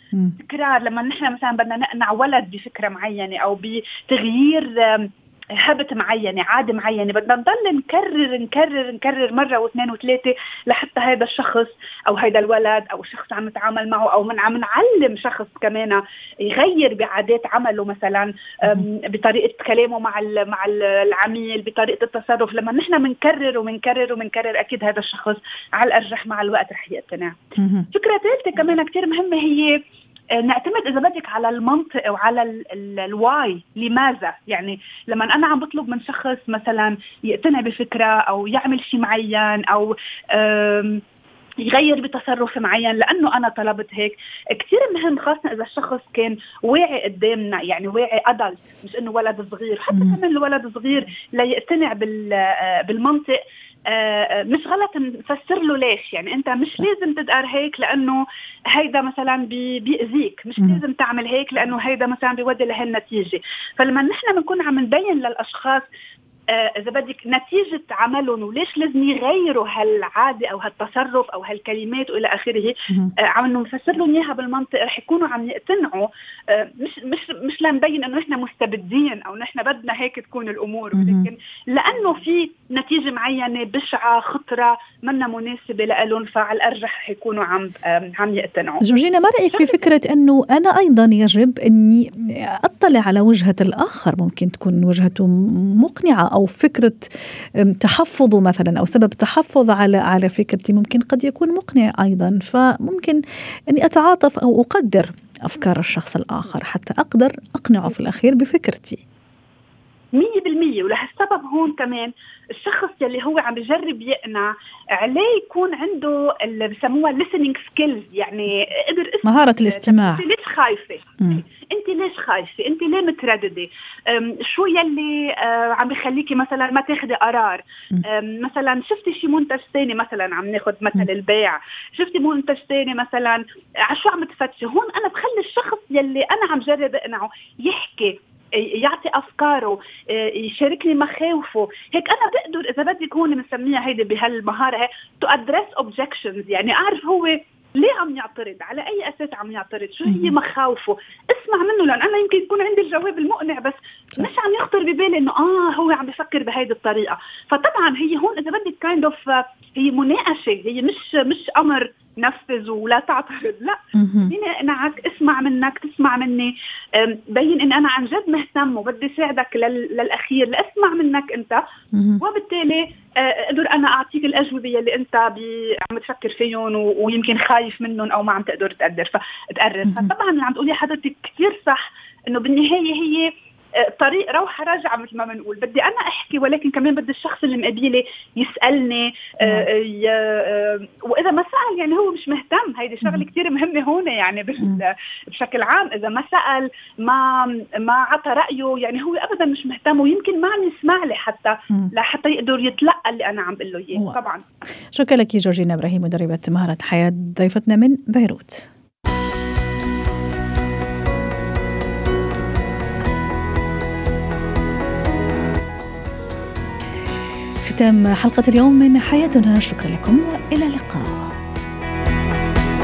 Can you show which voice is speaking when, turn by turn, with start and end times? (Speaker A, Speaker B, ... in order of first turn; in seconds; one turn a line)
Speaker A: 0.4-27.4
Speaker B: 27.6-27.9
Speaker A: 27.9-29.8
Speaker A: 30.4-41.0
Speaker A: 41.6-58.2
Speaker B: 49.9-50.2
Speaker A: 58.7-65.8
Speaker A: 66.5-88.8
Speaker B: 81.0-81.3
Speaker B: 88.8-103.2
Speaker A: 89.5-89.9
Speaker B: 103.7-109.0
Speaker A: 110.1-171.6
Speaker B: 119.2-120.2
Speaker B: 150.1-150.4
Speaker B: 163.9-164.3
Speaker B: 171.9-172.2
Speaker A: 172.2-204.4
Speaker B: 189.4-189.8
Speaker B: 204.0-204.3
Speaker B: 204.9-208.7
Speaker B: 217.6-221.3